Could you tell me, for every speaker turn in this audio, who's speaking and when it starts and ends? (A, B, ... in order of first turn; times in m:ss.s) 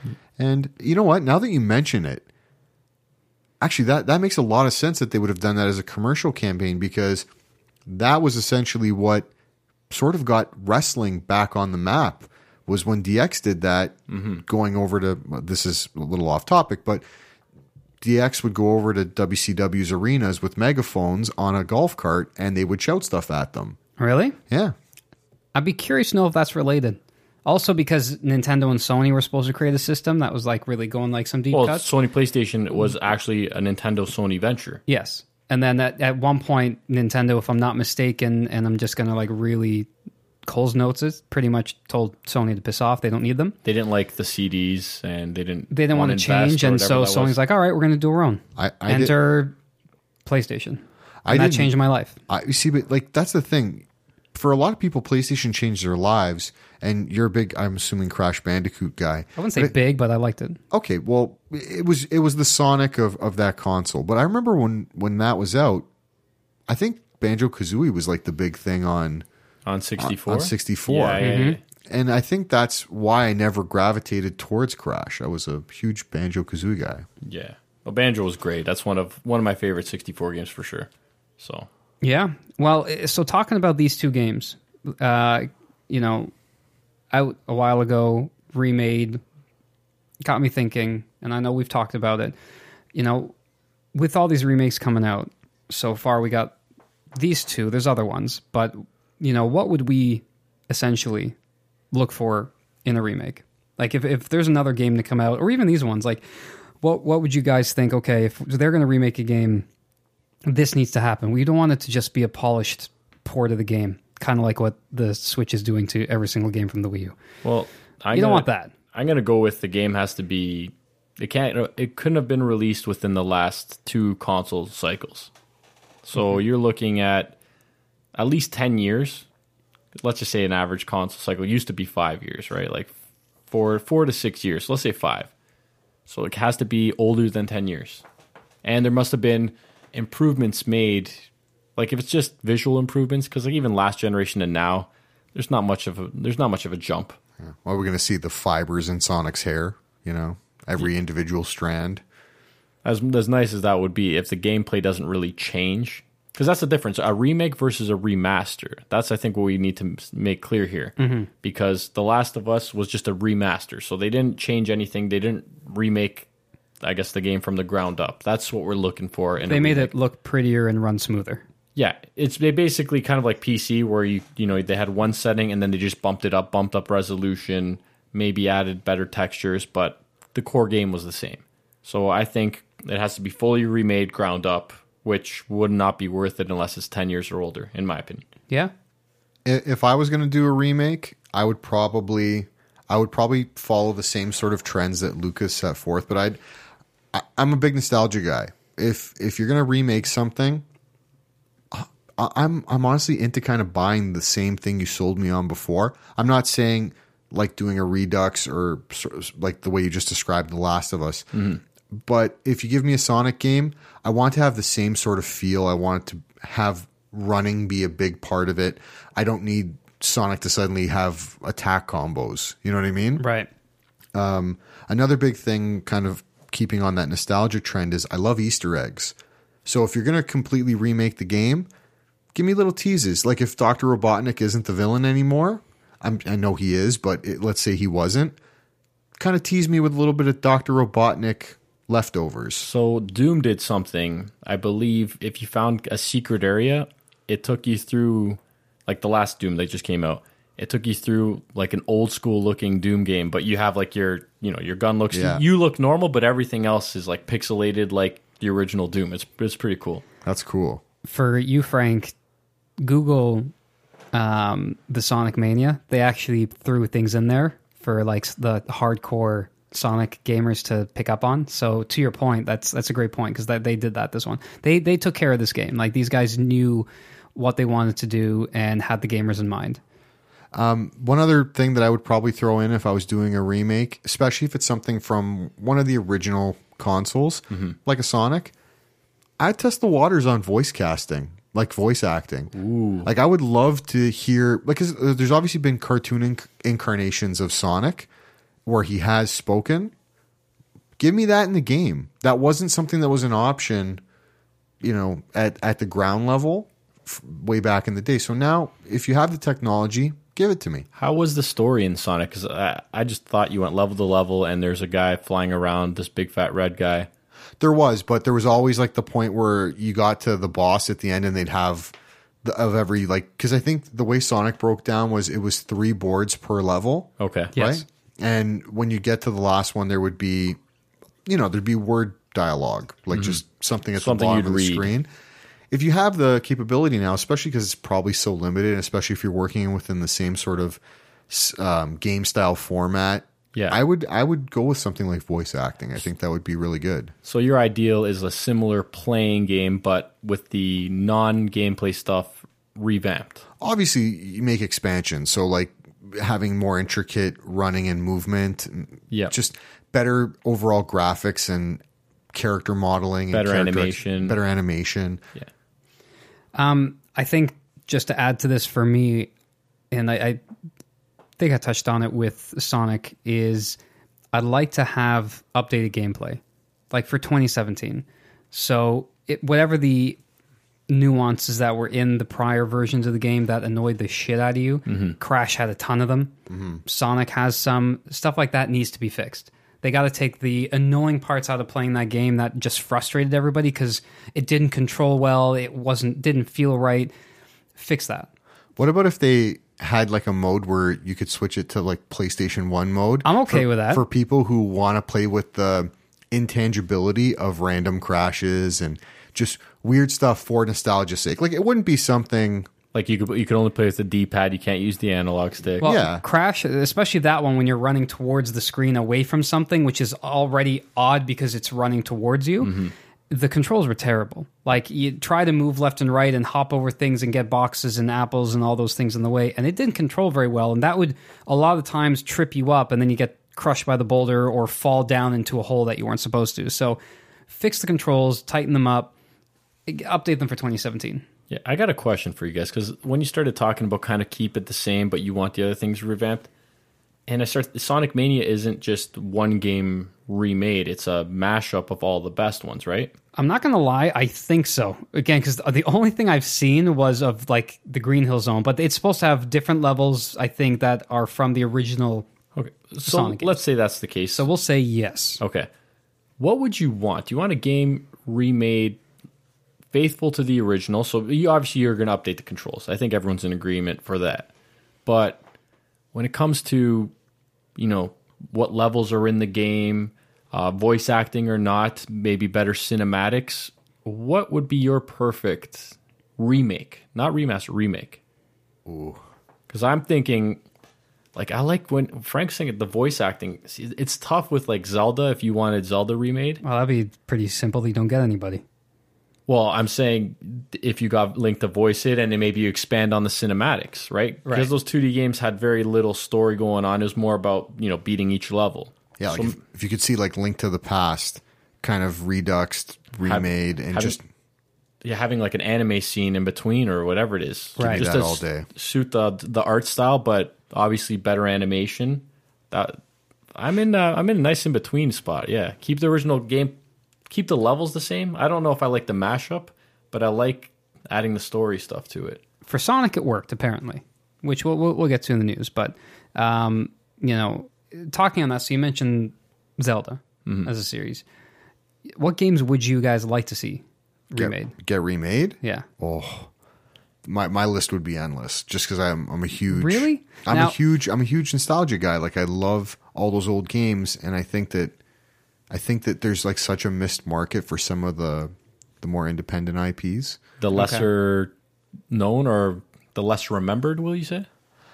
0:00.4-0:02.2 A
0:03.6-0:07.2 A
0:07.9-0:09.3 A
0:09.9-0:17.0 A
0:14.1-0:14.4 B
0:18.0-0:23.8 A
0:24.0-0:24.4 C
0:24.5-0:24.7 A
0:25.5-0:31.9 C
0:31.5-0:34.8 B
0:34.9-0:39.9 C
0:40.4-0:43.5 C
0:43.6-0:47.4 B
0:45.7-0:49.5 C
0:48.6-0:49.1 A
0:50.2-0:52.2 C
0:51.2-0:51.7 A
0:52.3-0:59.8 A
0:59.4-1:00.6 C
1:00.7-1:05.9 A
1:06.7-1:09.2 A
1:09.6-1:11.6 B
1:10.0-1:17.0 A
1:11.2-1:11.6 C
1:17.2-1:21.7 B
1:22.0-1:26.3 C
1:27.1-1:29.2 C
1:30.2-1:32.4 C
1:32.9-1:33.3 C
1:33.9-1:36.5 C
1:37.1-1:41.3 C
1:41.9-1:46.2 C
1:46.8-1:49.6 C
1:50.4-1:57.2 C
1:57.4-2:05.3 B
1:58.1-1:58.7 C
2:06.0-2:07.3 B
2:08.1-2:09.2 B
2:10.0-2:12.9 B
2:13.5-2:15.3 B
2:16.1-2:18.0 B
2:18.6-2:21.2 B
2:21.8-2:27.2 B
2:27.4-2:32.0 A
2:32.8-2:46.3 B
2:41.0-2:41.3 C
2:46.8-2:49.9 B
2:49.4-2:51.4 C
2:51.8-3:08.2 B
3:09.4-3:16.4 A
3:17.1-3:20.6 A
3:21.7-3:43.2 A
3:31.3-3:31.6 B
3:43.2-3:43.5 C
3:44.1-3:51.7 A
3:52.3-3:58.4 A
3:59.2-4:02.7 A
4:02.6-4:20.0 B
4:15.1-4:15.4 A
4:20.2-4:20.8 A
4:21.0-4:22.1 C
4:22.8-4:23.5 C
4:24.1-4:39.8 C
4:40.5-4:48.5 A
4:49.4-4:52.5 A
4:52.5-4:53.1 B
4:53.0-4:58.1 A
4:58.6-4:59.9 A
5:01.0-5:04.0 A
5:04.8-5:10.9 A
5:11.0-5:17.1 B
5:17.6-5:30.6 A
5:27.2-5:27.6 B
5:27.5-5:27.8 C
5:31.2-5:35.1 A
5:33.1-5:33.4 B
5:34.0-5:34.9 B
5:35.7-5:47.1 A
5:47.2-5:53.4 B
5:53.6-6:01.8 A
6:02.3-6:05.2 A
6:03.3-6:04.4 B
6:06.5-6:09.3 C
6:09.9-6:10.4 C
6:11.4-6:13.8 C
6:14.3-6:20.2 C
6:20.9-6:26.3 C
6:24.9-6:25.2 B
6:26.5-6:26.8 A
6:26.8-6:37.1 C
6:37.8-6:38.3 C
6:38.8-6:52.7 A
6:43.2-6:44.0 C
6:52.9-6:55.9 B
6:55.8-6:56.2 A
6:55.8-7:02.7 C
7:02.6-7:02.9 B
7:03.3-7:19.1 C
7:19.9-7:21.2 C
7:21.5-7:26.5 B
7:27.3-7:33.1 B
7:33.4-7:42.3 C
7:42.6-7:44.4 B
7:43.0-7:43.6 C
7:44.4-7:45.4 C
7:45.4-7:45.7 B
7:46.4-7:49.0 B
7:49.9-7:54.5 B
7:55.0-7:55.4 B
7:56.1-7:57.1 B
7:57.8-8:08.2 B
8:08.8-8:09.2 A
8:09.7-8:10.6 B
8:11.3-8:16.6 B
8:16.6-8:18.6 C
8:19.5-8:29.6 B
8:29.2-8:34.2 A
8:33.2-8:34.2 B
8:35.0-8:43.0 B
8:37.8-8:38.0 C
8:37.8-8:38.7 A
8:43.5-8:46.8 B
8:47.3-8:52.4 B
8:52.7-9:01.2 C
9:02.2-9:04.7 C
9:04.4-9:06.5 A
9:07.2-9:15.0 A
9:09.7-9:10.8 C
9:15.7-9:20.4 A
9:20.6-9:21.5 B
9:20.7-9:21.1 C
9:22.1-9:24.5 B